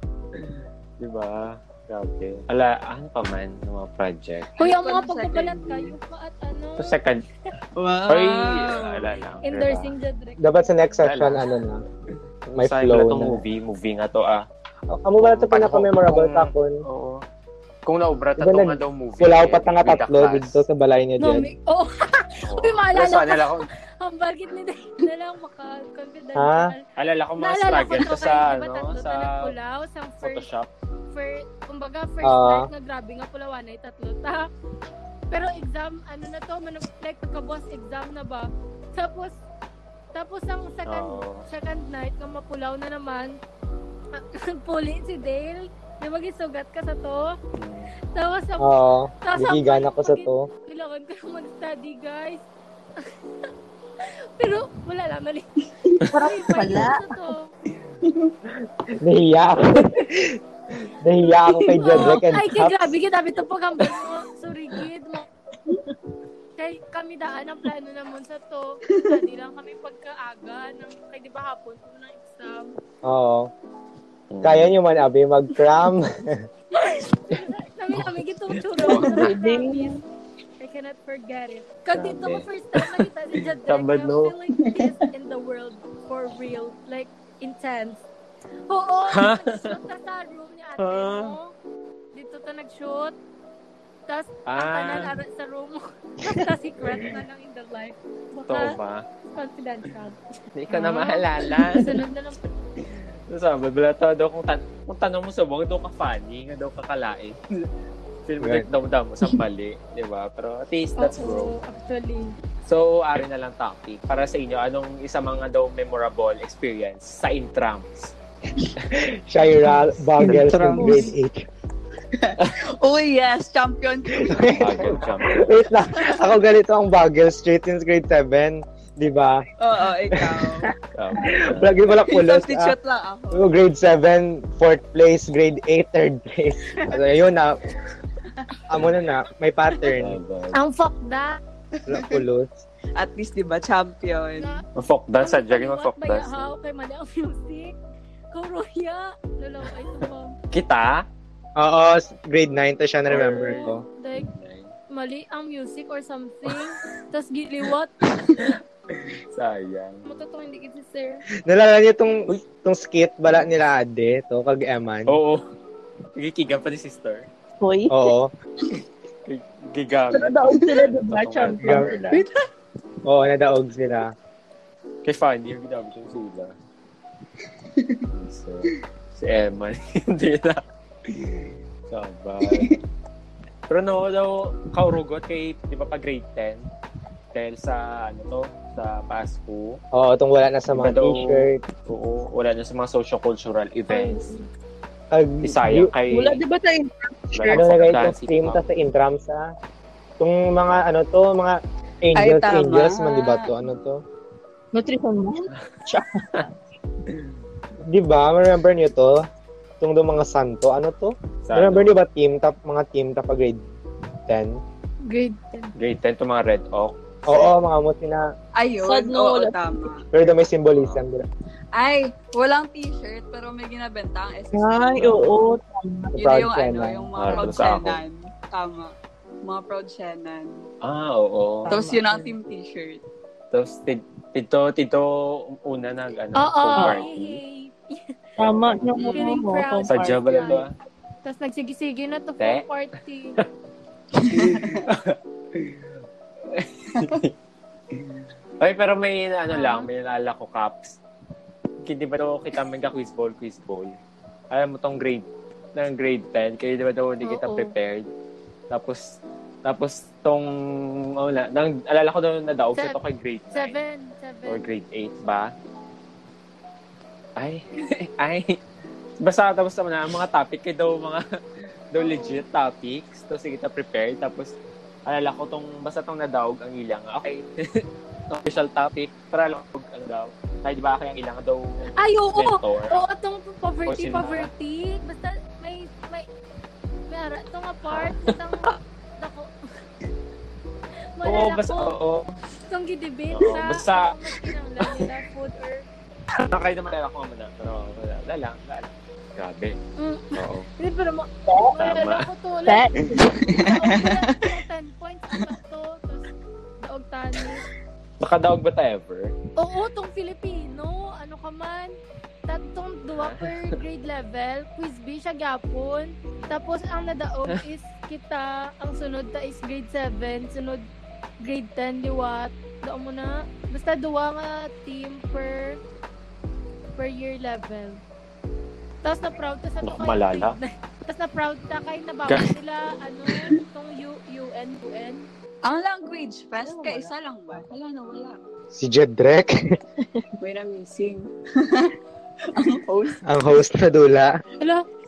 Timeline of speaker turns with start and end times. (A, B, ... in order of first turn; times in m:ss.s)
0:00.4-0:04.6 A
0:04.6-0:06.0 B
0:04.6-0:07.0 C
0:06.8-0:07.2 A
0:07.8-0:09.2 B
0:08.1-0:09.9 A
0:09.4-0:11.0 C
0:10.4-0:11.8 D
0:11.0-0:11.5 A
0:12.5-0:13.4 D
0:12.6-0:14.5 A
0:14.9-0:16.8 D
0:15.2-0:17.2 A
0:17.9-0:20.6 A
0:18.4-0:21.5 D
0:21.2-0:26.8 C
0:22.4-0:23.7 A
0:26.4-0:26.7 D
0:27.0-0:29.5 A
0:27.4-0:30.5 C
0:30.2-0:30.7 A
0:31.1-0:34.4 C
0:32.2-0:32.7 D
0:35.3-0:39.4 C
0:40.1-0:43.4 C
0:40.9-0:41.4 A
0:44.1-0:47.4 C
0:47.6-0:47.9 A
0:48.1-0:52.4 C
0:48.6-0:50.5 D
0:54.4-0:55.5 C
0:56.0-0:57.5 C
0:56.1-0:57.1 E
0:58.0-0:58.3 B
0:59.0-1:00.4 D
1:01.0-1:02.9 D
1:01.7-1:05.3 C
1:06.6-1:12.7 C
1:08.9-1:09.2 B
1:13.0-1:13.5 D
1:14.3-1:14.7 A
1:14.4-1:16.4 D
1:16.8-1:20.0 C
1:18.9-1:20.0 E
1:20.6-1:28.0 C
1:21.9-1:23.1 A
1:23.6-1:24.3 A
1:28.7-1:31.5 C
1:29.1-1:29.8 A
1:30.8-1:31.4 A
1:32.2-1:33.2 C
1:34.1-1:38.8 C
1:34.5-1:35.1 A
1:36.8-1:37.1 A
1:38.5-1:39.0 A
1:39.3-1:42.5 C
1:40.6-1:42.0 A
1:43.3-1:47.4 A
1:48.3-1:51.6 A
1:48.4-1:48.7 D
1:51.0-1:52.4 C
1:52.7-1:58.1 A
1:58.9-2:01.5 D
2:00.2-2:01.1 B
2:00.2-2:00.9 A
2:00.3-2:01.1 E
2:02.2-2:04.6 B
2:04.2-2:09.4 D
2:04.6-2:05.6 A
2:05.9-2:06.3 B
2:09.6-2:10.7 B
2:10.1-2:12.8 D
2:10.9-2:11.8 A
2:11.9-2:13.5 B
2:13.3-2:17.6 D
2:16.8-2:17.0 B
2:18.7-2:20.2 D
2:20.0-2:20.6 A
2:20.5-2:21.4 C
2:21.7-2:22.2 B
2:21.9-2:22.6 D
2:23.0-2:24.6 B
2:24.4-2:24.6 C
2:24.8-2:26.4 A
2:25.2-2:27.8 C
2:28.3-2:30.4 C
2:30.0-2:31.1 A
2:31.6-2:33.8 D
2:33.1-2:34.7 A
2:33.3-2:34.3 C
2:34.9-2:37.9 C
2:36.5-2:36.9 A
2:38.2-2:40.0 A
2:40.0-2:41.2 C
2:41.5-2:45.2 D
2:45.1-2:45.4 A
2:46.2-2:47.3 A
2:47.6-2:48.1 E
2:47.9-2:48.3 D
2:49.3-2:52.2 A
2:50.1-2:52.2 E
2:51.6-2:52.0 D
2:53.0-2:54.1 D
2:55.0-2:56.5 A
2:57.8-2:58.0 B
2:58.1-3:02.8 A
3:02.4-3:02.8 B
3:03.7-3:06.6 A
3:07.3-3:09.8 A
3:09.9-3:11.6 D
3:10.8-3:14.3 A
3:13.9-3:14.4 C
3:15.1-3:15.9 D
3:15.4-3:16.4 A
3:16.1-3:18.0 E
3:17.3-3:18.6 A
3:17.5-3:19.5 D
3:20.2-3:24.0 D
3:22.2-3:23.5 B
3:24.7-3:26.5 E
3:27.9-3:29.2 D
3:29.8-3:33.6 D
3:31.5-3:31.9 A
3:34.3-3:34.6 D
3:35.0-3:35.7 C
3:35.8-3:37.5 A
3:37.3-3:38.2 D
3:38.6-3:40.1 B
3:38.8-3:39.9 E
3:40.1-3:41.2 D
3:40.7-3:41.0 A
3:41.7-3:45.2 B
3:44.5-3:46.2 E
3:45.0-3:45.3 A
3:46.2-3:50.7 B
3:46.2-3:47.1 D
3:47.2-3:48.0 A
3:50.8-3:51.8 A
3:51.7-3:52.3 E
3:51.7-3:53.0 B
3:53.5-3:57.4 A
3:56.4-3:58.2 C
3:56.8-3:57.0 E
3:58.4-4:00.7 E
3:58.4-3:58.9 A
3:59.0-3:59.3 B
3:59.0-4:00.6 C
3:59.9-4:00.7 A
4:01.2-4:03.4 C
4:02.4-4:02.6 A
4:04.2-4:04.9 B
4:04.3-4:05.8 A
4:06.5-4:07.3 A
4:08.0-4:11.0 A
4:09.5-4:09.9 C
4:11.8-4:14.0 A
4:14.5-4:18.1 A
4:17.2-4:17.7 C
4:18.7-4:20.5 A
4:21.2-4:23.8 A
4:23.5-4:24.7 C
4:24.5-4:25.5 A
4:27.4-4:28.6 A
4:29.2-4:31.2 A
4:31.9-4:34.5 A
4:32.0-4:32.4 C
4:35.1-4:43.0 A
4:42.0-4:46.3 C
4:43.9-4:44.5 A
4:47.1-4:49.5 C
4:47.9-4:48.8 A
4:51.2-4:52.0 C
4:51.2-4:52.3 A
4:52.7-4:55.8 C
4:53.3-4:55.1 A
4:56.4-4:59.8 A
5:00.0-5:06.3 C
5:00.4-5:00.7 A
5:01.5-5:01.7 E
5:01.8-5:02.3 A
5:02.7-5:03.5 E
5:03.4-5:04.4 B
5:06.8-5:07.6 C
5:08.2-5:09.3 A
5:09.6-5:12.0 C
5:12.5-5:20.8 C
5:13.2-5:13.7 A
5:21.4-5:25.8 C
5:27.0-5:28.0 C
5:29.0-5:35.3 C
5:29.8-5:30.6 A
5:35.6-5:38.4 B
5:36.6-5:37.6 E
5:38.7-5:39.6 D
5:40.0-5:40.3 E
5:40.4-5:42.0 B
5:42.5-5:43.2 B
5:43.3-5:44.4 D
5:44.6-5:44.8 C